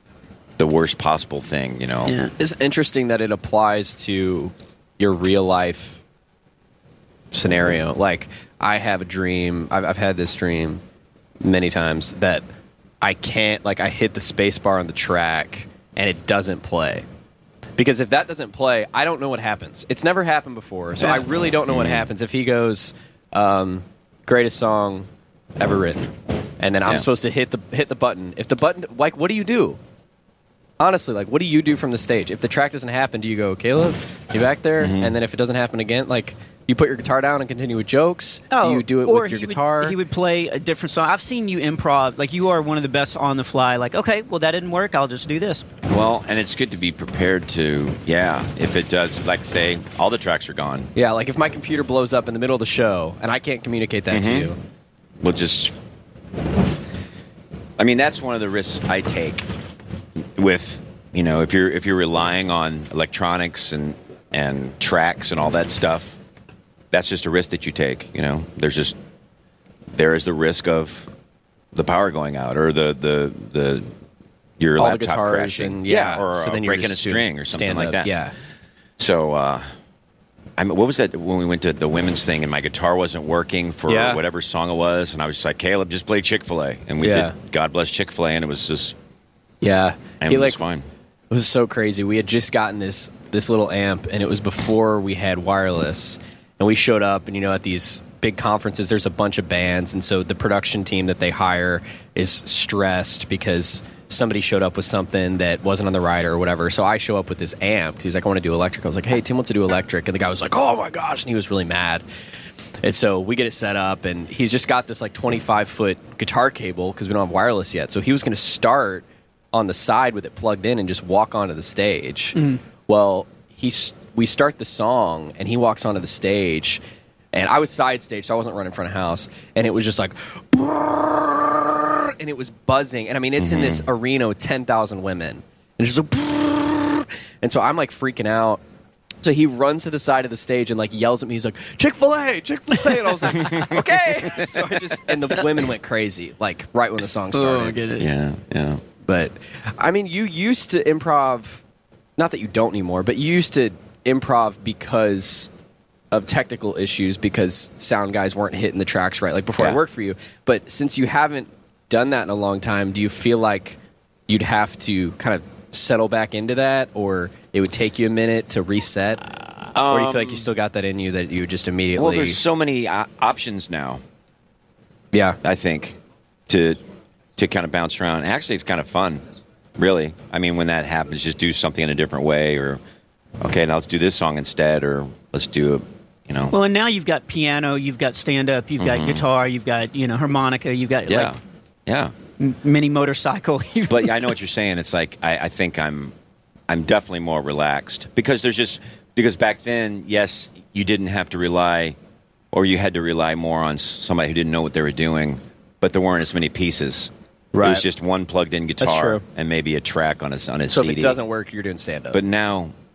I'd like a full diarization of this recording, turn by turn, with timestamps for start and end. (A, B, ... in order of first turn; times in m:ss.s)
0:00.6-0:02.2 A
0:02.1-0:02.3 B
0:02.4-0:06.0 C
0:07.3-0:10.8 C
0:11.4-0:12.4 C
0:13.0-0:17.0 C
0:17.8-0:29.8 C
0:21.0-0:22.1 A
0:30.8-0:40.0 C
0:34.8-0:35.2 A
0:38.5-0:45.7 B
0:45.9-0:50.9 A
0:51.0-0:54.6 C
0:54.1-0:54.6 A
0:55.2-0:55.8 A
0:57.8-0:59.5 A
1:00.2-1:06.2 A
1:06.9-1:09.0 A
1:09.9-1:11.1 A
1:11.7-1:13.9 A
1:14.6-1:18.1 A
1:14.8-1:18.3 C
1:19.0-1:19.7 A
1:20.6-1:29.0 A
1:23.9-1:24.2 C
1:27.0-1:27.3 C
1:29.6-1:30.6 C
1:30.2-1:30.9 A
1:31.3-1:52.0 C
1:52.8-2:06.8 C
2:07.3-2:18.6 C
2:13.4-2:13.9 A
2:19.2-2:27.8 C
2:27.3-2:28.1 B
2:28.0-2:28.8 A
2:29.0-2:31.6 C
2:32.2-2:35.5 C
2:36.1-2:43.8 C
2:39.6-2:39.8 A
2:44.3-2:49.2 C
2:49.7-2:50.5 A
2:49.8-2:52.4 C
2:52.0-2:54.0 A
2:55.1-2:55.4 C
2:55.4-2:56.0 A
2:56.5-2:56.8 A
2:57.4-2:59.2 A
2:59.8-3:02.8 A
3:03.4-3:06.6 A
3:06.5-3:11.4 B
3:08.8-3:09.2 A
3:11.1-3:12.1 A
3:12.4-3:14.3 B
3:13.9-3:16.1 A
3:16.7-3:22.0 A
3:22.5-3:31.2 A
3:27.5-3:27.8 C
3:28.8-3:29.2 C
3:30.7-3:32.2 C
3:32.1-3:32.7 A